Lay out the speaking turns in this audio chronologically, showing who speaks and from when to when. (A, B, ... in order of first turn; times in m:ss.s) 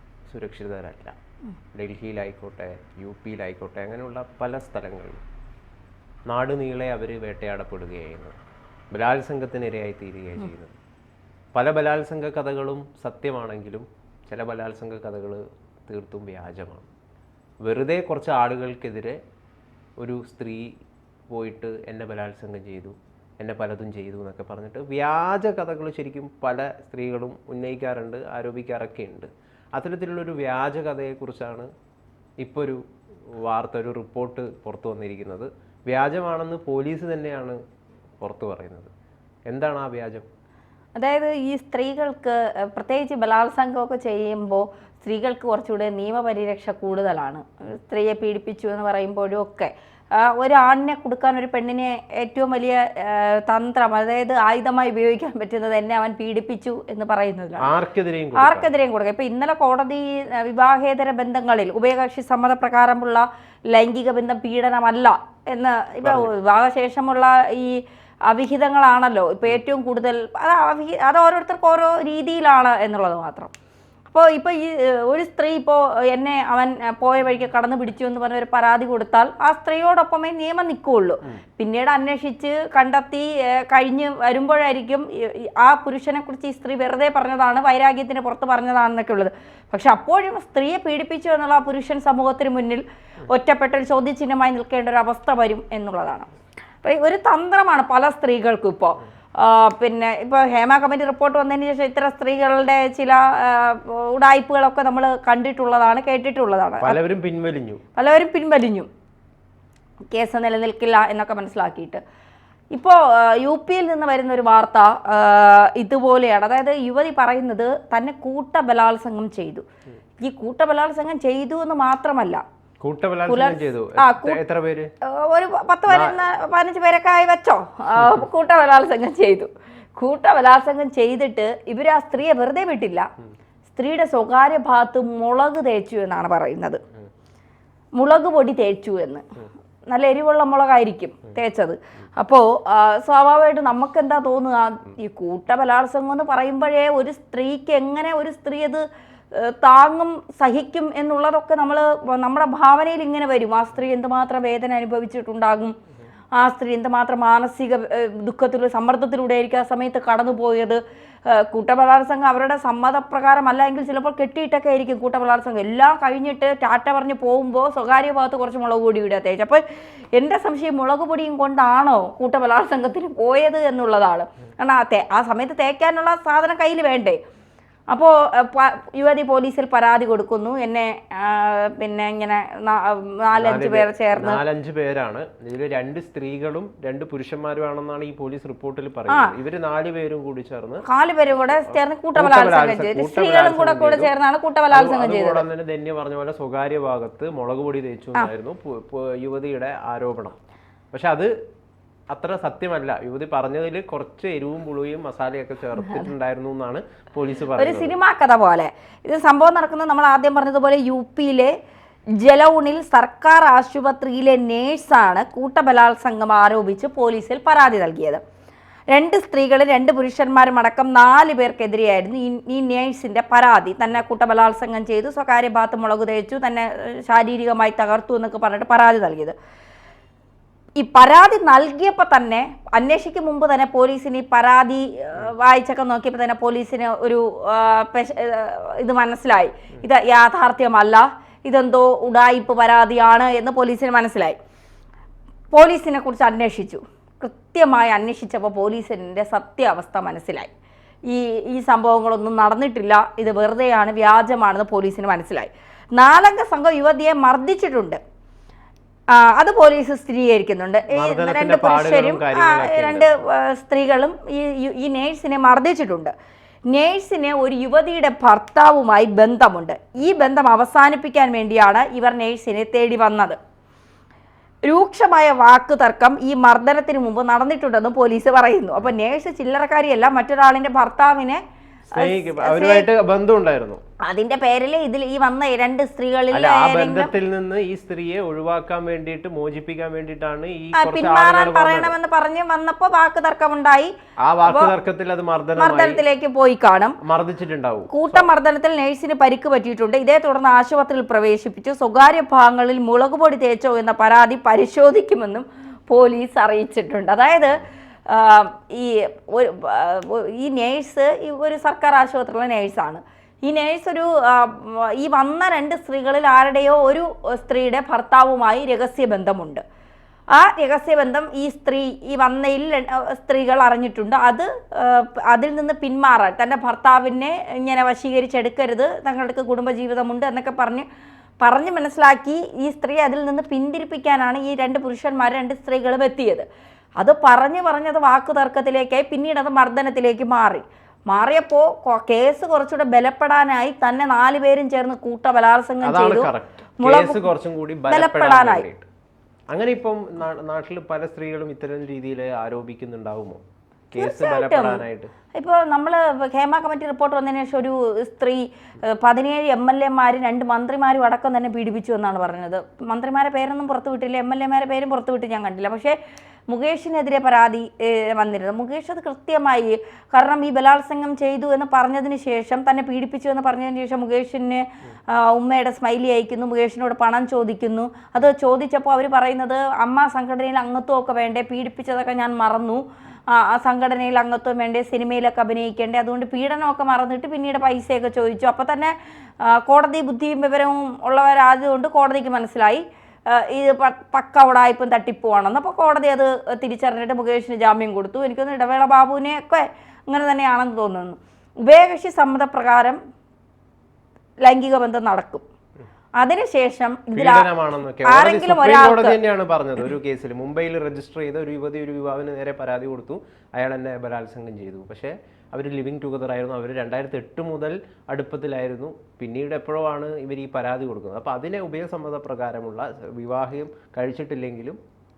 0:00.3-0:01.2 A
0:01.7-0:05.2 A
0:06.3-0:08.4 A
0:08.9-0:10.8 A
0:11.5-0:16.9 A
0:17.6-0:19.2 A
0:20.0-0:20.7 A
0:21.3-0:31.7 A
0:32.4-0:32.8 A
0:33.4-0:37.6 A
0:38.2-0:38.9 A
0:39.5-0:40.2 A
0:41.0-0:57.7 B
0:57.6-0:58.7 A
0:58.4-1:13.5 B
1:06.0-1:06.3 A
1:14.1-1:36.3 B
1:36.8-1:47.0 B
1:46.8-1:47.8 A
1:48.0-1:48.9 B
1:50.1-1:52.0 B
1:52.7-1:59.6 B
2:00.2-2:02.4 B
2:02.8-2:04.9 A
2:03.2-2:04.4 B
2:05.0-2:13.1 B
2:05.9-2:06.2 A
2:08.0-2:08.2 A
2:13.7-2:16.8 B
2:18.0-2:19.2 B
2:19.9-2:35.7 B
2:36.3-2:49.6 B
2:50.1-2:57.2 B
2:57.9-3:04.4 B
3:03.4-3:10.8 A
3:10.8-3:15.4 B
3:11.6-3:14.1 A
3:14.7-3:20.4 A
3:20.9-3:21.3 A
3:22.1-3:28.0 A
3:25.8-3:26.1 B
3:27.6-3:31.5 B
3:32.2-3:38.2 B
3:38.9-3:49.3 B
3:50.8-4:04.4 B
4:05.5-4:10.5 B
4:11.1-4:18.0 B
4:19.1-4:26.1 B
4:20.9-4:23.1 A
4:26.7-4:33.4 B
4:34.6-4:41.4 B
4:41.9-4:43.8 A
4:42.0-4:42.9 B
4:44.0-4:47.1 B
4:46.3-4:51.9 A
4:50.7-4:53.9 B
4:54.2-4:56.0 A
4:54.5-4:54.7 B
4:55.6-4:57.0 B
4:57.0-4:58.3 A
4:57.9-5:19.6 B
5:20.3-5:30.8 B
5:31.4-5:36.5 B
5:37.0-5:47.3 B
5:45.8-5:48.9 A
5:47.9-5:48.6 B
5:49.5-5:55.1 A
5:54.0-5:54.8 B
5:55.3-6:06.0 B
6:06.5-6:43.0 B
6:44.4-6:45.4 B
6:46.2-6:47.5 B
6:47.1-7:04.8 A
6:48.0-6:49.2 B